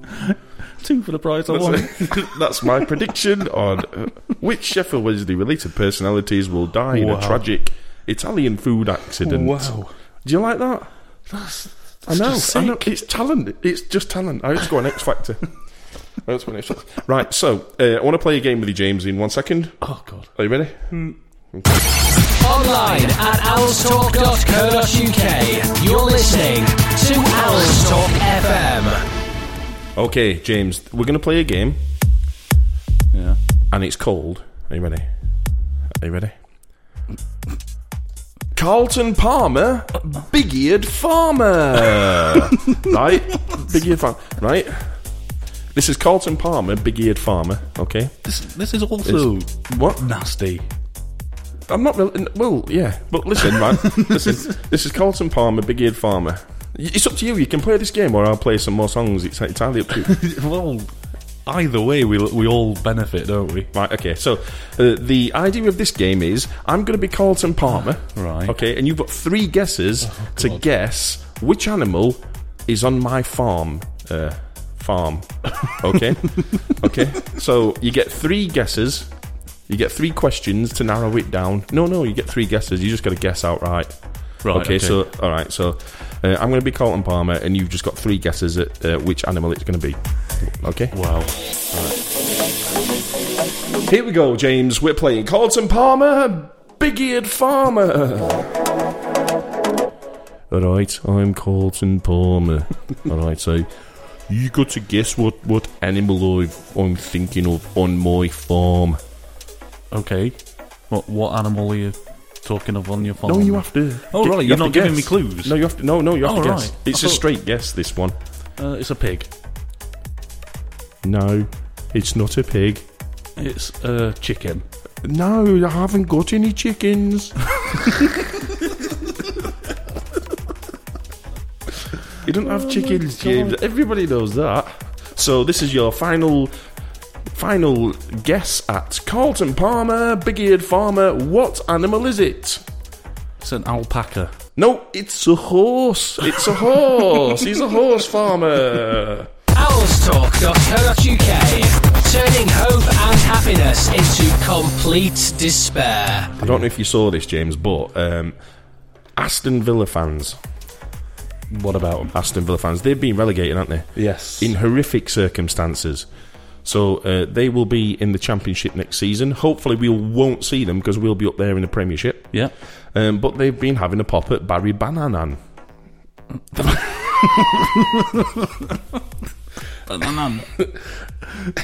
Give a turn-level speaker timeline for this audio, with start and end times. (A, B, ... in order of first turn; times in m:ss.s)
0:00.2-0:02.6 A
0:01.5-0:10.9 B
0:06.9-0:07.4 A
0:09.2-0:09.9 A
0:11.3-0:13.0 A
0:12.0-0:21.9 B
0:19.8-0:20.3 A
0:20.9-0:21.2 A
0:22.4-0:29.0 C
0:29.9-0:31.8 B
0:33.1-0:33.4 A
0:33.7-0:36.4 B
0:38.5-0:48.4 B
0:48.2-0:50.7 A
0:49.0-0:50.0 B
0:51.6-1:00.2 B
1:00.1-1:03.7 A
1:03.7-1:32.0 B
1:08.1-1:08.6 A
1:10.0-1:10.6 A
1:16.4-1:16.8 A
1:24.4-1:25.0 A
1:30.9-1:31.4 A
1:33.8-1:38.6 B
1:40.5-1:49.0 B
1:49.9-1:57.2 A
1:53.2-1:58.2 B
1:58.6-1:59.3 A
2:01.0-2:02.9 B
2:03.4-2:04.6 A
2:05.0-2:08.0 B
2:12.2-2:16.5 B
2:12.4-2:13.6 A
2:17.3-2:22.6 B
2:23.4-2:24.3 A
2:24.6-2:29.3 B
2:29.5-2:36.3 C
2:36.4-2:36.7 A
2:36.4-2:38.4 B
2:39.1-2:40.4 B
2:41.5-2:42.2 A
2:42.1-2:55.7 B
2:43.9-2:44.6 A
2:56.5-2:58.4 A
2:59.9-3:01.0 A